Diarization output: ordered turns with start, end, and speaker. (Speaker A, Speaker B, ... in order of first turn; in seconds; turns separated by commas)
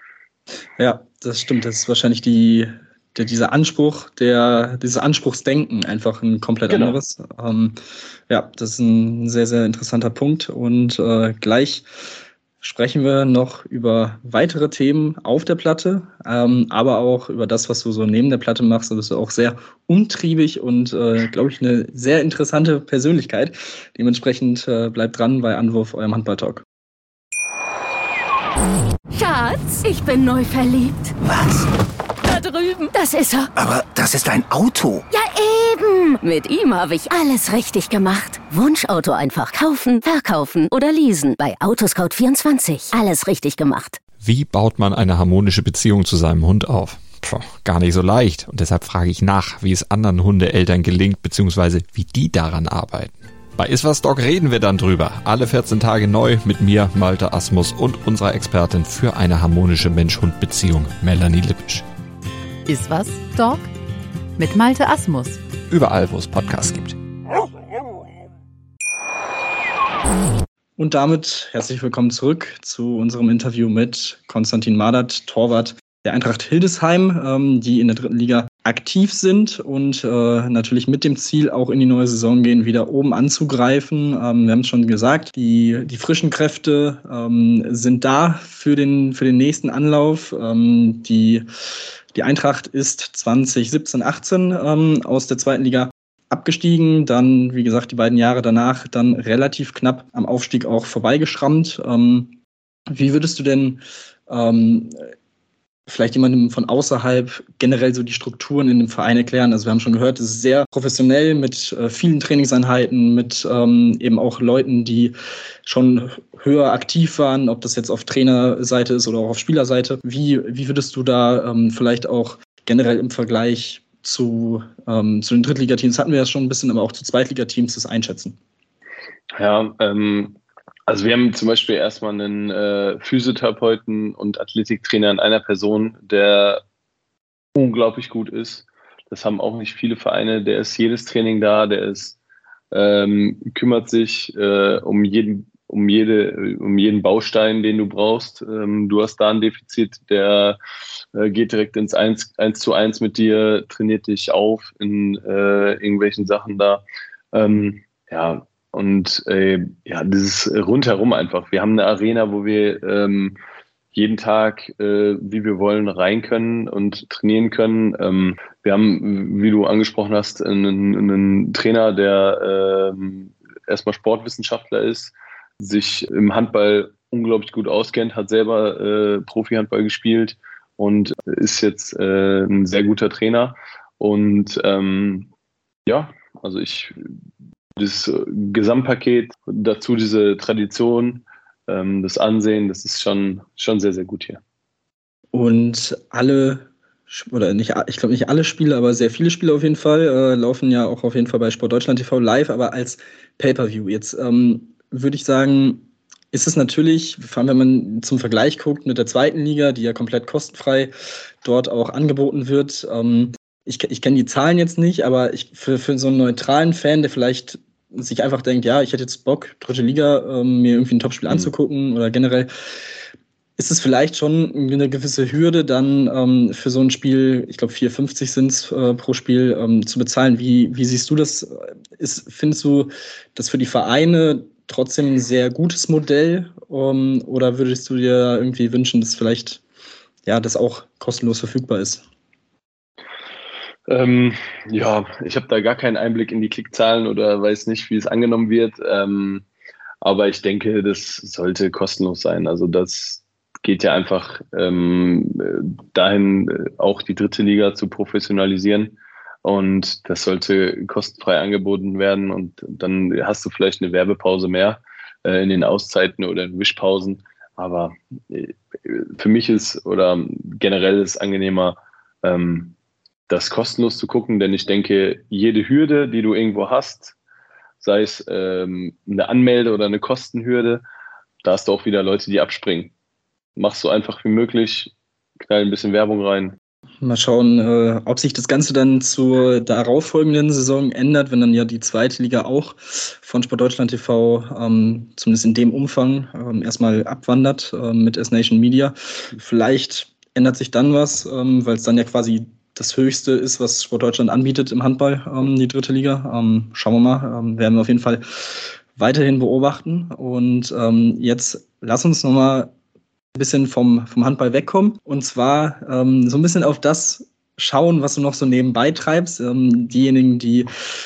Speaker A: 0.8-7.8, Speaker B: 6.7-7.0, Speaker A: 8.3-11.8, Speaker A: 12.6-26.6, Speaker C: 29.1-31.1, Speaker D: 31.2-31.7, Speaker C: 32.2-33.5, Speaker D: 33.5-35.0, Speaker C: 35.1-44.0, Speaker E: 44.2-61.8, Speaker F: 62.7-63.7, Speaker F: 64.4-65.4, Speaker E: 65.7-67.0, Speaker A: 70.8-91.5, Speaker A: 92.1-102.3, Speaker A: 102.9-105.0, Speaker A: 105.9-115.1, Speaker A: 115.7-128.4, Speaker B: 129.3-136.6, Speaker B: 137.5-142.2, Speaker B: 142.7-150.6, Speaker B: 151.1-163.3, Speaker B: 163.9-185.3, Speaker B: 185.9-186.9, Speaker B: 187.8-194.4, Speaker A: 195.3-222.5, Speaker A: 223.6-239.6, Speaker A: 240.2-242.0, Speaker B: 243.9-249.4, Speaker B: 250.0-272.7, Speaker B: 273.3-277.1, Speaker B: 277.8-280.8, Speaker B: 281.4-282.9, Speaker B: 283.6-286.6, Speaker A: 287.0-312.7, Speaker A: 313.3-320.7